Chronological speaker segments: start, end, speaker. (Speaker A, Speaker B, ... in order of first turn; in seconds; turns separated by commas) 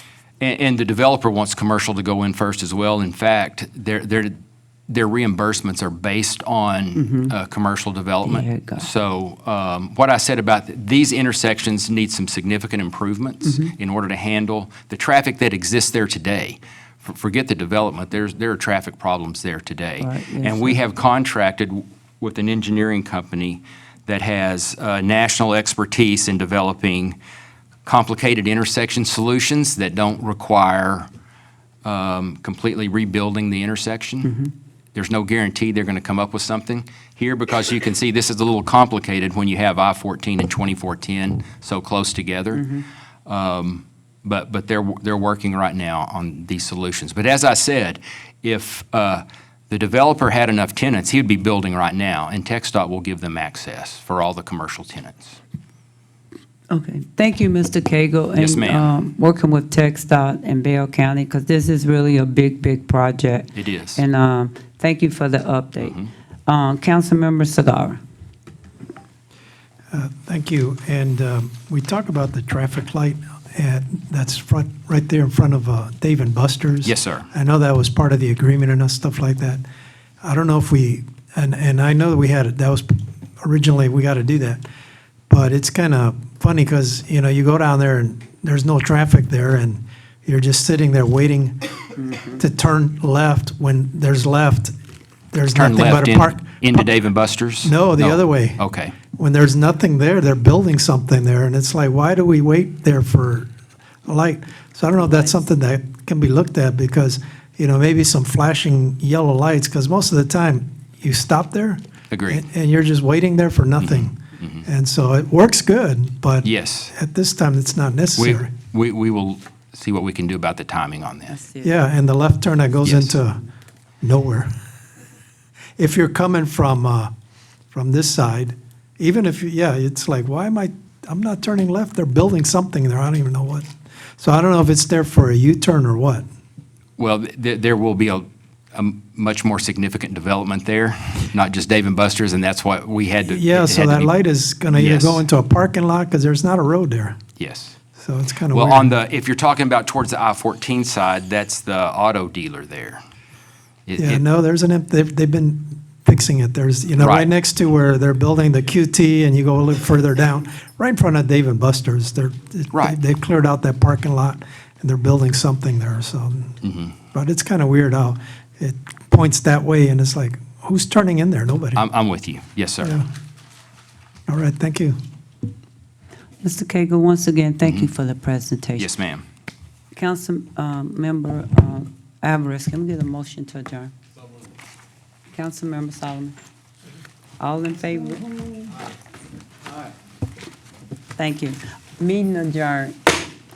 Speaker A: 0.4-4.3, Speaker A: 4.9-27.2, Speaker B: 7.0-7.3, Speaker B: 8.2-8.9, Speaker B: 13.4-13.7, Speaker B: 20.0-20.8, Speaker A: 27.9-31.1, Speaker A: 31.8-34.3, Speaker B: 34.2-34.5, Speaker A: 35.0-42.7, Speaker B: 42.5-42.9, Speaker A: 43.3-55.4, Speaker B: 56.7-68.0, Speaker A: 58.4-59.0, Speaker A: 63.6-64.0, Speaker A: 65.8-66.1, Speaker C: 69.9-79.6, Speaker A: 76.8-77.3, Speaker C: 80.2-84.6, Speaker C: 85.3-91.7, Speaker B: 92.0-92.4, Speaker C: 92.3-94.7, Speaker C: 95.3-96.8, Speaker A: 95.5-99.0, Speaker C: 97.6-98.6, Speaker C: 99.2-103.5, Speaker C: 104.1-118.5, Speaker A: 112.1-112.5, Speaker A: 113.8-114.6, Speaker A: 116.4-116.9, Speaker A: 118.2-121.4, Speaker B: 121.3-121.8, Speaker C: 121.6-123.4, Speaker A: 122.8-123.2, Speaker C: 124.0-124.5, Speaker C: 125.8-127.1, Speaker C: 127.7-133.7, Speaker C: 134.2-136.2, Speaker A: 137.0-144.1, Speaker C: 143.3-147.2, Speaker A: 144.7-145.2, Speaker A: 147.4-147.8, Speaker C: 148.0-148.9, Speaker A: 148.5-153.0, Speaker A: 153.9-154.2, Speaker C: 154.0-166.6, Speaker A: 157.0-157.3, Speaker A: 166.6-166.9, Speaker C: 167.1-171.8, Speaker A: 171.8-173.0, Speaker C: 172.8-173.1, Speaker C: 174.3-175.0, Speaker B: 176.4-178.9, Speaker A: 177.6-177.9, Speaker A: 178.8-179.2, Speaker B: 179.9-183.9, Speaker B: 185.3-186.4, Speaker B: 187.4-188.6, Speaker B: 191.2-193.1